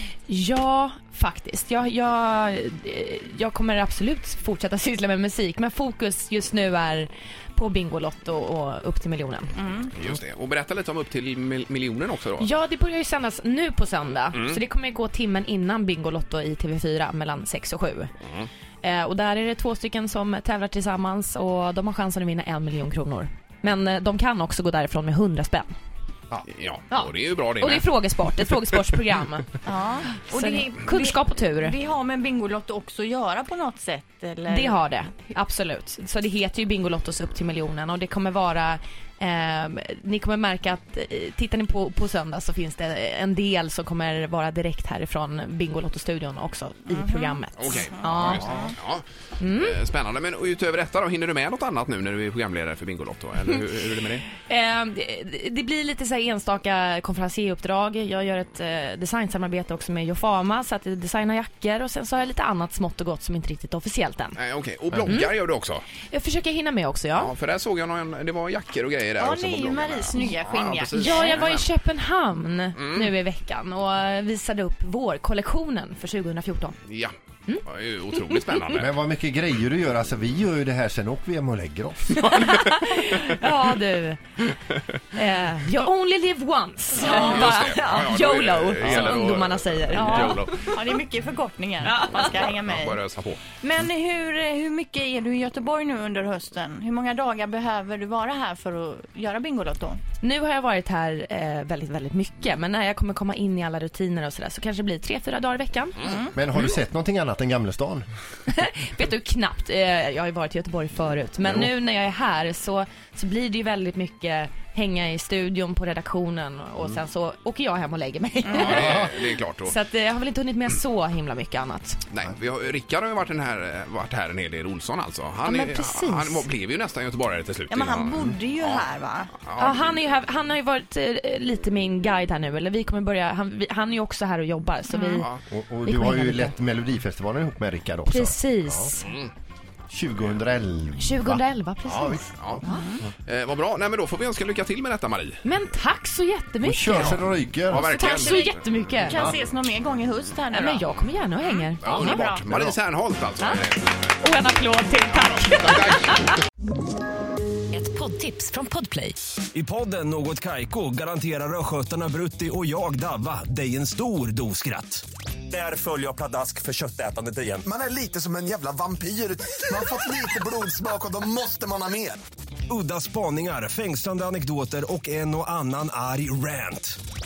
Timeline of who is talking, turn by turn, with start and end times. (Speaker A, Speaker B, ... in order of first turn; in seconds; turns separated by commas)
Speaker A: 0.3-9.5, Speaker B: 9.6-9.9, Speaker C: 9.9-12.5, Speaker A: 12.4-18.1, Speaker A: 18.8-25.7, Speaker C: 26.4-27.9, Speaker A: 26.9-29.6, Speaker B: 29.7-34.8, Speaker A: 30.2-31.8, Speaker A: 34.5-48.7, Speaker C: 47.5-54.3, Speaker A: 49.4-49.8, Speaker A: 54.4-64.4, Speaker C: 64.4-65.9, Speaker A: 65.0-65.3, Speaker A: 66.1-67.3, Speaker C: 67.2-71.7, Speaker B: 69.2-71.1, Speaker A: 71.0-76.8, Speaker C: 72.8-73.1, Speaker C: 76.9-78.9, Speaker A: 78.3-78.6, Speaker D: 78.8-82.3, Speaker A: 82.2-84.2, Speaker A: 85.1-90.7, Speaker C: 87.0-90.7, Speaker B: 90.7-93.0, Speaker A: 91.8-92.3, Speaker C: 92.1-93.4, Speaker B: 93.6-100.0, Speaker A: 100.2-106.7, Speaker D: 106.3-108.0, Speaker A: 108.5-119.1, Speaker C: 118.5-119.7, Speaker D: 118.8-119.0, Speaker A: 119.7-122.0, Speaker C: 122.1-130.0, Speaker A: 125.4-126.4, Speaker B: 127.7-129.3, Speaker A: 129.6-135.3, Speaker C: 135.2-135.4, Speaker D: 135.5-139.0, Speaker A: 135.8-136.5, Speaker A: 138.1-139.1, Speaker C: 139.0-139.3, Speaker D: 139.9-142.6, Speaker A: 141.0-142.8, Speaker C: 142.4-142.6, Speaker C: 143.2-145.4, Speaker A: 145.4-147.2, Speaker D: 146.6-148.0, Speaker C: 146.9-148.5, Speaker B: 147.9-148.4, Speaker A: 148.0-149.2, Speaker D: 149.1-149.4, Speaker B: 149.1-150.8, Speaker A: 150.5-152.2, Speaker C: 151.8-154.0, Speaker B: 152.1-152.4, Speaker D: 152.5-152.8, Speaker A: 154.2-156.2, Speaker C: 155.2-156.4, Speaker A: 157.8-159.2, Speaker E: 159.5-167.7, Speaker F: 167.6-172.2, Speaker E: 172.7-177.0